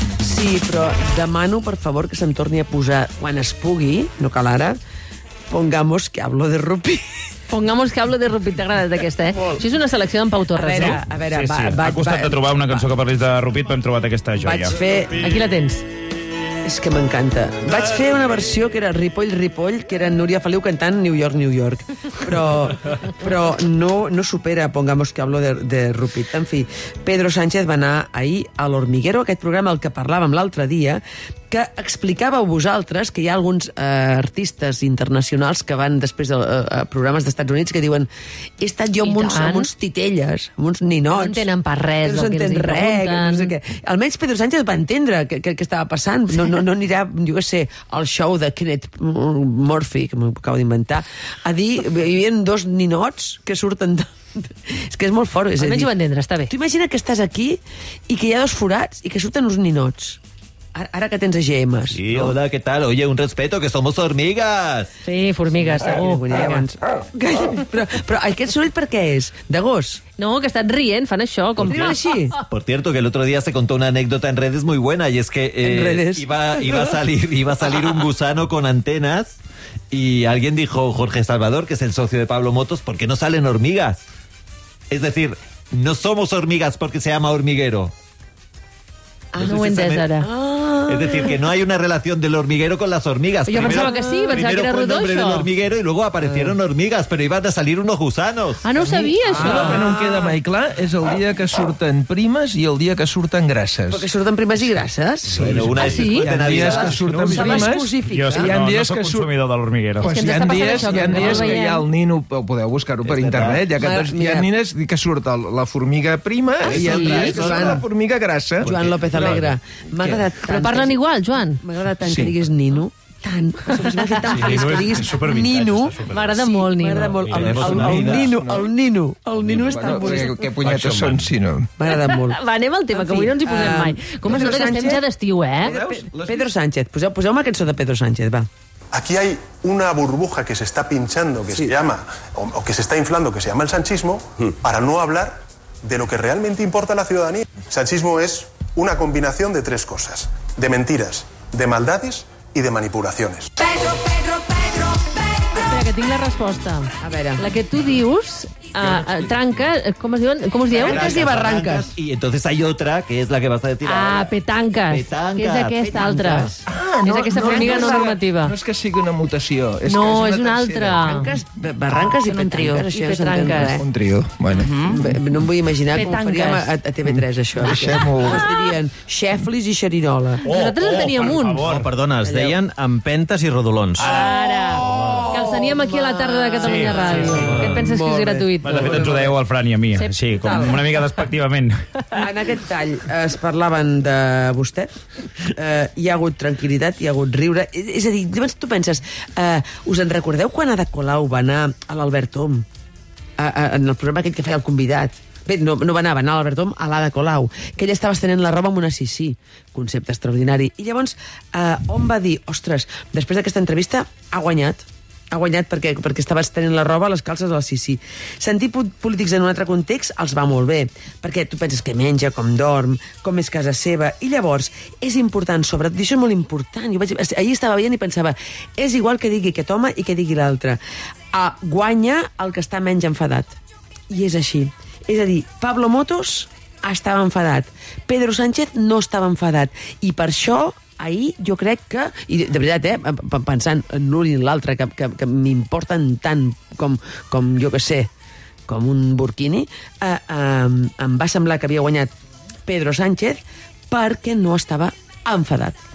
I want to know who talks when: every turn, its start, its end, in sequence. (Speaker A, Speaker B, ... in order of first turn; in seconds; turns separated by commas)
Speaker A: 0.2-4.8, Speaker A: 5.5-7.0, Speaker B: 7.5-11.0, Speaker A: 10.5-12.9, Speaker C: 10.8-14.7, Speaker A: 14.4-15.2, Speaker B: 15.2-15.8, Speaker A: 16.6-38.1, Speaker A: 38.6-41.5, Speaker B: 39.0-39.7, Speaker B: 41.1-43.5, Speaker A: 42.0-55.9, Speaker B: 55.6-56.5, Speaker A: 56.5-60.2, Speaker A: 60.7-62.4, Speaker D: 61.9-64.9, Speaker B: 65.0-66.6, Speaker A: 65.5-70.0, Speaker B: 70.2-72.5, Speaker D: 71.6-71.9, Speaker A: 71.6-72.4, Speaker D: 72.5-79.4, Speaker A: 75.6-76.3, Speaker D: 79.9-84.0, Speaker D: 84.9-87.9, Speaker A: 89.3-89.6, Speaker D: 89.3-90.1, Speaker B: 89.4-90.3, Speaker A: 90.2-91.5, Speaker D: 90.9-98.6, Speaker B: 93.5-95.5, Speaker A: 93.6-94.3, Speaker B: 98.6-99.9, Speaker E: 98.8-104.1, Speaker A: 99.6-99.8, Speaker A: 103.9-105.5, Speaker D: 105.3-107.7, Speaker E: 105.3-109.3, Speaker B: 105.8-106.4, Speaker A: 106.7-108.5, Speaker C: 108.1-110.1, Speaker E: 110.0-120.3, Speaker B: 110.0-111.8, Speaker D: 113.0-113.7, Speaker A: 113.8-114.5, Speaker A: 116.6-117.9, Speaker B: 116.8-117.4, Speaker A: 118.6-121.0, Speaker D: 118.8-119.3, Speaker B: 120.5-121.6, Speaker A: 121.6-130.4, Speaker E: 122.0-122.3, Speaker C: 124.2-126.3, Speaker B: 126.0-127.2, Speaker C: 127.1-127.9, Speaker D: 127.3-128.3, Speaker E: 127.5-128.7, Speaker E: 129.3-131.7, Speaker D: 130.7-131.1, Speaker A: 131.8-132.4, Speaker B: 131.9-135.8, Speaker A: 132.9-135.1, Speaker A: 135.6-138.5, Speaker E: 135.6-136.5, Speaker F: 138.9-153.5, Speaker B: 155.5-161.0, Speaker A: 157.0-157.5, Speaker A: 160.7-161.9, Speaker D: 160.8-165.8, Speaker B: 163.8-168.5, Speaker A: 165.8-166.6, Speaker E: 166.7-171.2, Speaker B: 169.8-171.3, Speaker A: 171.0-173.9, Speaker B: 172.1-173.8, Speaker E: 173.7-175.1, Speaker A: 174.8-180.5, Speaker B: 175.9-176.7, Speaker E: 177.1-178.6, Speaker B: 180.4-181.7, Speaker C: 180.4-181.9, Speaker D: 181.7-184.1, Speaker A: 182.2-182.6, Speaker C: 184.0-184.3, Speaker B: 184.1-189.0, Speaker A: 184.2-189.4, Speaker C: 185.0-185.3, Speaker C: 186.6-187.8, Speaker C: 188.6-191.8, Speaker B: 189.9-190.8, Speaker A: 190.3-191.0, Speaker A: 192.1-194.9, Speaker A: 195.5-202.7, Speaker A: 203.4-230.8, Speaker A: 231.3-233.6, Speaker A: 234.1-248.1, Speaker A: 248.7-252.1, Speaker A: 252.7-255.8